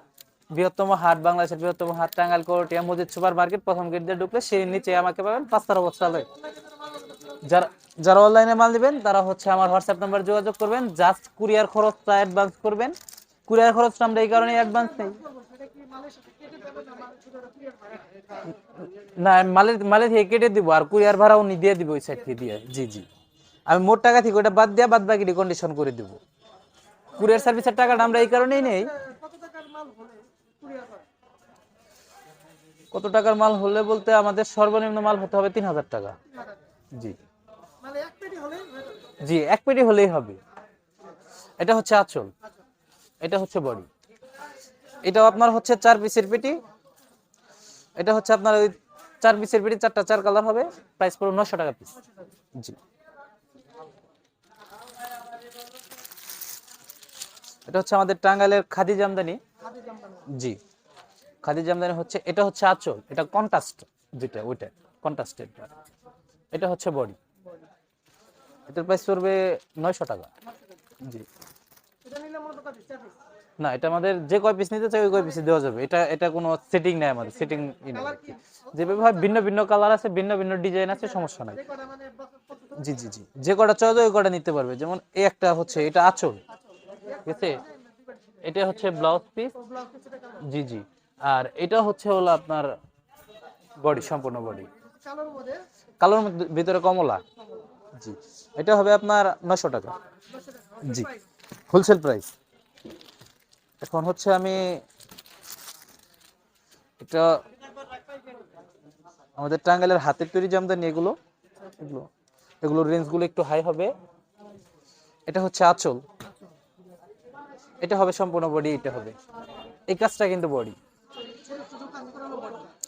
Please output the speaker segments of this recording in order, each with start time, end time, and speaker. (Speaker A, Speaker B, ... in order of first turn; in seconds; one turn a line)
Speaker A: 0.5-6.3
Speaker B: 6.3-7.6
Speaker A: 7.4-13.0
Speaker A: 13.5-15.2
Speaker B: 14.4-18.6
Speaker A: 18.8-23.1
Speaker A: 23.7-26.2
Speaker A: 27.1-28.9
Speaker B: 27.2-31.1
Speaker A: 32.9-36.2
Speaker B: 36.3-36.6
Speaker B: 37.8-39.1
Speaker A: 39.2-40.4
Speaker A: 41.6-42.3
Speaker A: 43.2-43.9
Speaker A: 45.0-46.6
Speaker A: 48.0-52.0
Speaker A: 57.7-59.4
Speaker B: 59.6-60.2
Speaker A: 60.3-60.6
Speaker A: 61.4-65.7
Speaker A: 66.5-67.2
Speaker A: 68.7-70.3
Speaker A: 71.0-71.3
Speaker B: 72.0-73.2
Speaker A: 73.6-81.6
Speaker B: 77.5-79.4
Speaker B: 81.1-83.0
Speaker A: 82.8-86.4
Speaker B: 86.8-88.4
Speaker A: 87.2-87.6
Speaker A: 88.4-89.5
Speaker B: 89.6-90.4
Speaker A: 90.4-92.7
Speaker A: 93.8-94.7
Speaker B: 94.7-95.7
Speaker A: 96.0-97.2
Speaker A: 98.0-99.9
Speaker B: 100.3-101.2
Speaker A: 100.8-101.1
Speaker A: 101.7-102.3
Speaker A: 103.8-104.8
Speaker A: 107.0-107.4
Speaker A: 109.4-111.2
Speaker A: 111.8-112.1
Speaker A: 112.6-113.9
Speaker A: 115.3-116.0
Speaker A: 117.8-119.2
Speaker A: 119.9-120.8
Speaker B: 121.3-122.7